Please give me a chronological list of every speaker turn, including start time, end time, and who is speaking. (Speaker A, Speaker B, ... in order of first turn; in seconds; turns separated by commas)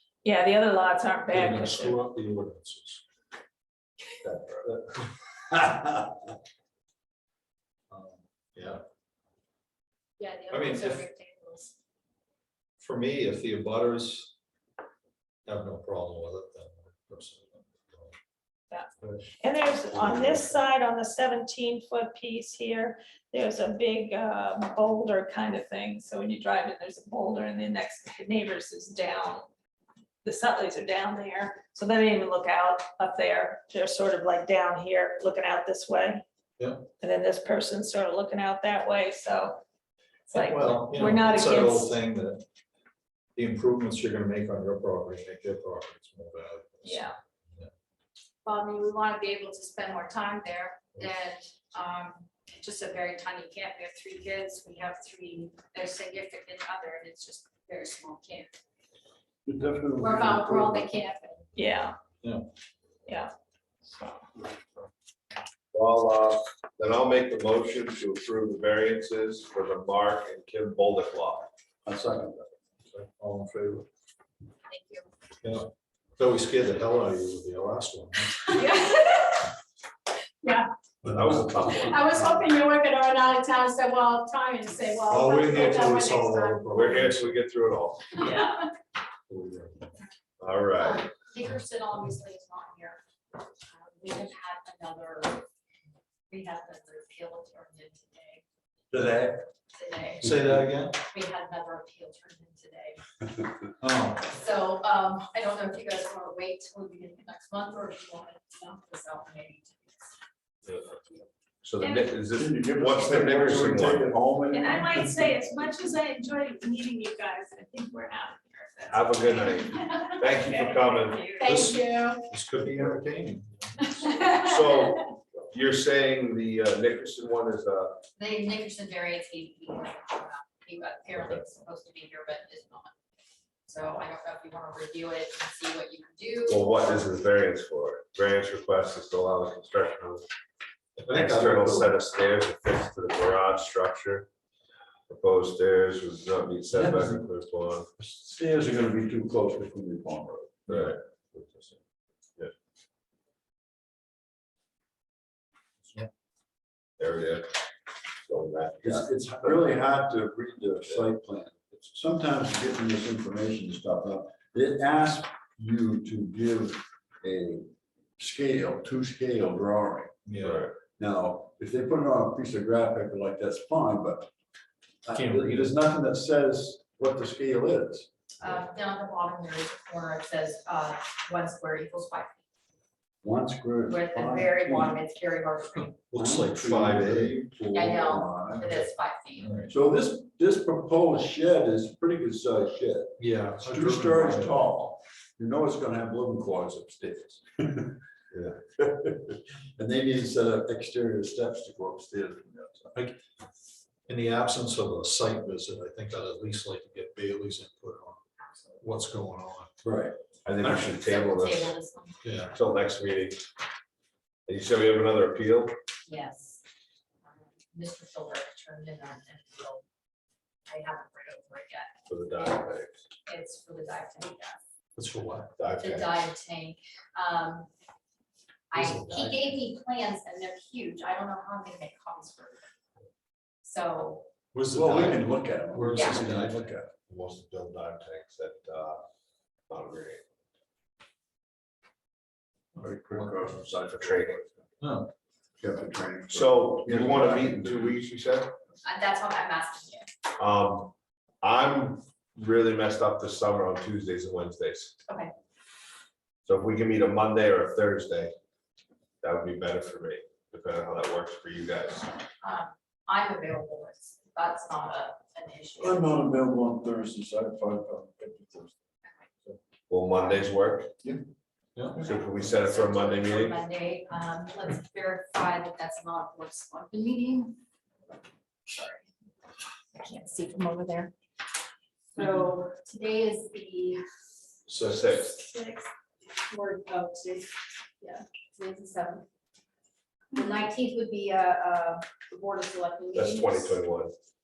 Speaker A: 0.2-2.0, Speaker B: 1.3-3.0, Speaker C: 4.2-4.7, Speaker D: 5.5-6.2, Speaker B: 7.9-8.8, Speaker E: 10.2-11.8, Speaker B: 10.5-11.0, Speaker B: 12.8-14.3, Speaker B: 15.5-18.1, Speaker A: 18.7-29.5, Speaker B: 19.0-19.3, Speaker B: 19.9-20.6, Speaker A: 30.2-36.2, Speaker B: 36.6-36.9, Speaker A: 37.0-39.6, Speaker A: 40.3-42.0, Speaker B: 40.3-42.4, Speaker B: 43.4-47.7, Speaker A: 46.9-47.2, Speaker E: 48.5-58.5, Speaker D: 59.5-60.9, Speaker E: 60.0-61.4, Speaker A: 61.6-62.0, Speaker A: 63.1-63.3, Speaker A: 63.8-64.2, Speaker C: 65.7-71.5, Speaker D: 71.8-72.4, Speaker B: 72.9-73.9, Speaker E: 74.7-75.1, Speaker B: 75.4-78.4, Speaker E: 78.5-79.5, Speaker B: 81.0-82.3, Speaker C: 81.1-82.1, Speaker E: 81.9-86.6, Speaker B: 85.0-87.4, Speaker C: 86.7-88.1, Speaker A: 88.2-88.6, Speaker B: 89.3-89.9, Speaker C: 90.4-91.0, Speaker E: 90.8-93.0, Speaker E: 93.7-95.5, Speaker E: 96.3-98.4, Speaker D: 98.9-99.5, Speaker E: 99.7-100.3, Speaker B: 100.2-101.0, Speaker D: 100.2-100.7, Speaker E: 101.1-103.0, Speaker B: 103.8-104.2, Speaker E: 104.2-110.1, Speaker E: 110.9-111.2, Speaker C: 111.6-114.1, Speaker A: 111.8-112.1, Speaker D: 112.3-115.4, Speaker A: 114.5-121.7, Speaker C: 118.9-121.4, Speaker E: 121.4-122.2, Speaker B: 121.4-124.0, Speaker C: 124.1-128.0, Speaker E: 128.2-132.9, Speaker C: 131.1-131.4, Speaker E: 133.7-137.0, Speaker C: 136.5-140.2, Speaker D: 141.0-141.9, Speaker C: 141.0-144.3, Speaker C: 145.1-147.9, Speaker D: 146.7-147.2, Speaker D: 148.0-151.7, Speaker C: 150.7-151.0, Speaker C: 157.0-157.5, Speaker C: 158.2-159.1, Speaker D: 158.8-170.1, Speaker B: 170.3-170.7, Speaker C: 170.4-170.8, Speaker D: 171.0-174.3, Speaker D: 175.1-178.1, Speaker B: 175.1-175.7, Speaker E: 178.4-182.4, Speaker D: 183.2-185.0, Speaker E: 183.9-186.0, Speaker B: 185.9-187.4, Speaker D: 186.1-188.7, Speaker E: 187.7-189.5, Speaker B: 189.4-189.7, Speaker D: 189.7-202.9, Speaker B: 193.2-194.6, Speaker B: 204.1-208.2, Speaker E: 208.4-208.8, Speaker B: 208.8-209.7, Speaker D: 209.8-210.2, Speaker C: 210.4-211.7, Speaker E: 210.6-212.6, Speaker B: 212.2-212.6, Speaker C: 212.5-213.4, Speaker C: 214.5-215.7, Speaker E: 216.1-216.6, Speaker E: 217.3-219.8, Speaker E: 220.7-221.9, Speaker C: 222.1-223.0, Speaker E: 223.3-224.6, Speaker B: 225.0-225.5, Speaker C: 225.6-226.1, Speaker E: 225.8-227.7, Speaker E: 228.7-232.7, Speaker B: 228.7-229.5, Speaker E: 233.6-234.3, Speaker B: 234.5-236.8, Speaker D: 234.7-236.9, Speaker E: 235.9-236.2, Speaker C: 237.1-239.0, Speaker C: 239.7-240.2, Speaker D: 242.8-244.6, Speaker B: 242.8-243.4, Speaker C: 243.8-244.4, Speaker B: 244.8-245.1, Speaker D: 245.6-248.0, Speaker C: 246.3-248.5, Speaker E: 248.8-250.1, Speaker C: 250.4-254.9, Speaker E: 255.1-255.3, Speaker C: 256.5-258.3, Speaker C: 259.2-262.1, Speaker E: 262.4-266.2, Speaker D: 265.8-268.7, Speaker C: 269.9-270.9, Speaker B: 271.8-272.0, Speaker C: 272.0-273.6, Speaker E: 272.2-277.6, Speaker E: 278.7-279.1, Speaker E: 279.9-281.1, Speaker E: 282.1-284.0, Speaker C: 284.7-285.4, Speaker E: 285.1-285.9, Speaker E: 286.5-289.2, Speaker E: 290.3-293.8, Speaker C: 293.1-294.1